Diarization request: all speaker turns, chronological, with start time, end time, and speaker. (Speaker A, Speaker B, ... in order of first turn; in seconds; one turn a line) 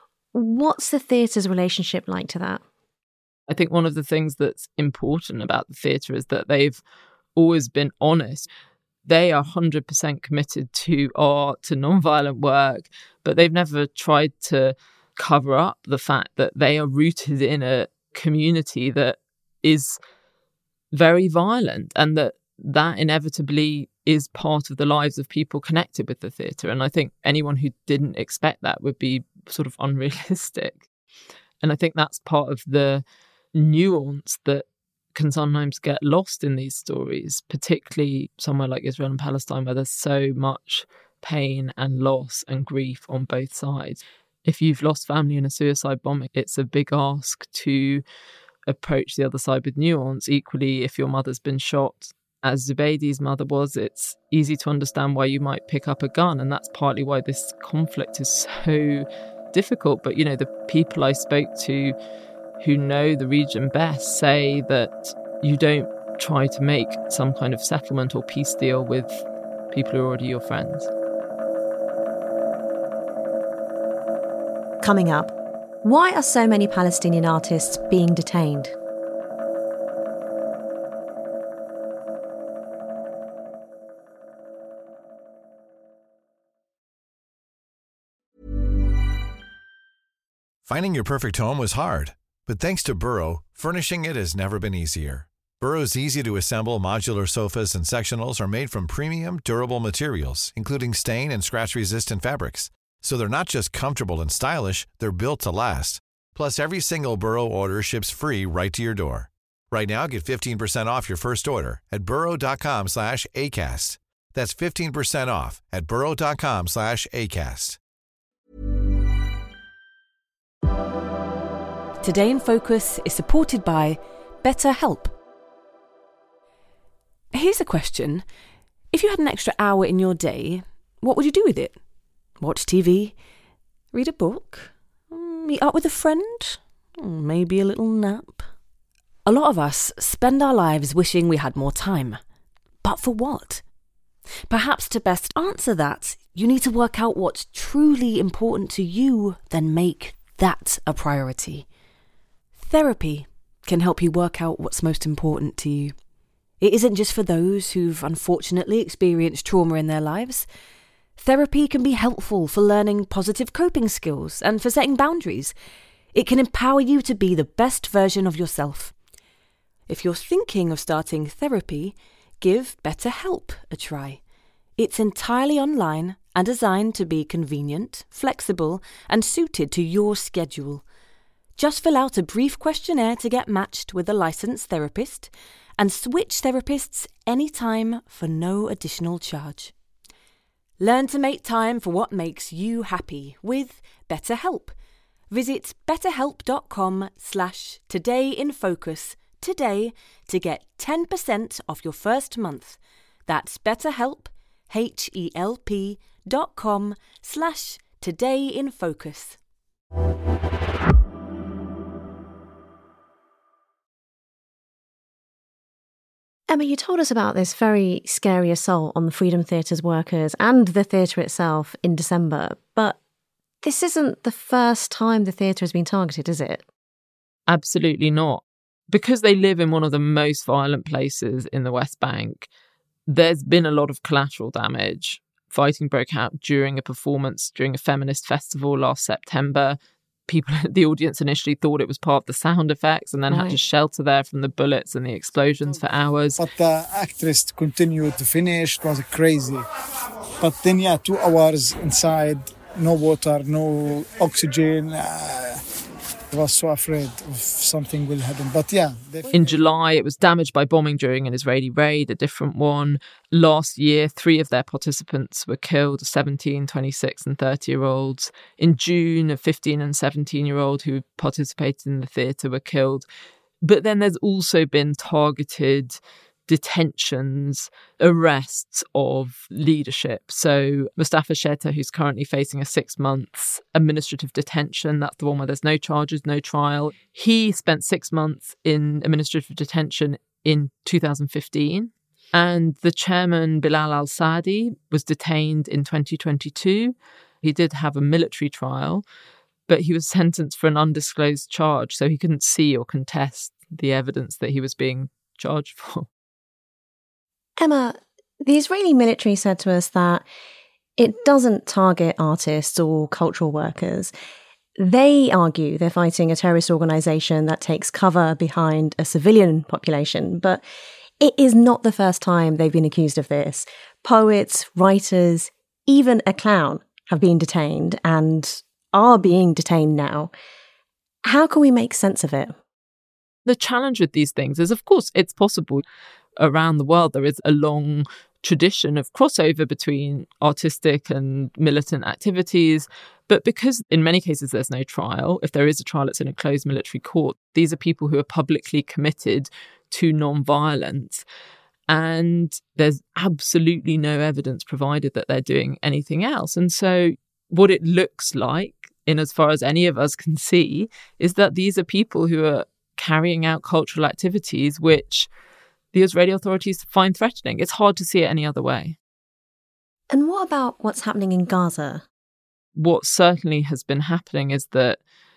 Speaker A: 0.3-2.6
Speaker B: 3.5-6.8
Speaker B: 7.4-8.5
Speaker B: 9.1-20.0
Speaker B: 20.9-30.9
Speaker B: 31.6-33.0
Speaker B: 33.5-48.0
Speaker B: 48.7-62.0
Speaker B: 62.6-70.9
Speaker A: 74.8-78.8
Speaker C: 90.6-117.8
Speaker D: 122.0-125.1
Speaker D: 127.3-128.3
Speaker D: 128.9-131.8
Speaker D: 132.4-133.2
Speaker D: 133.9-138.5
Speaker D: 139.2-142.2
Speaker D: 142.8-143.6
Speaker D: 144.5-151.7
Speaker D: 152.6-156.0
Speaker D: 156.6-160.5
Speaker D: 161.2-165.6
Speaker D: 166.1-168.9
Speaker D: 169.9-174.2
Speaker D: 174.8-180.9
Speaker D: 181.6-189.7
Speaker D: 190.8-194.8
Speaker D: 195.3-209.4
Speaker A: 216.5-223.0
Speaker A: 223.6-226.6
Speaker B: 227.5-232.5
Speaker B: 233.1-246.4
Speaker A: 243.3-243.6
Speaker E: 246.4-249.6
Speaker E: 250.4-255.6
Speaker E: 256.3-259.6
Speaker B: 259.3-273.1
Speaker B: 273.6-299.0
Speaker B: 299.7-306.1
Speaker A: 307.6-310.3
Speaker A: 311.0-314.1
Speaker A: 314.8-320.6
Speaker A: 321.2-330.3
Speaker A: 331.2-332.6
Speaker B: 333.5-335.8
Speaker B: 336.4-351.2
Speaker B: 351.9-365.3
Speaker B: 365.9-369.0
Speaker A: 370.1-372.0
Speaker B: 372.8-375.0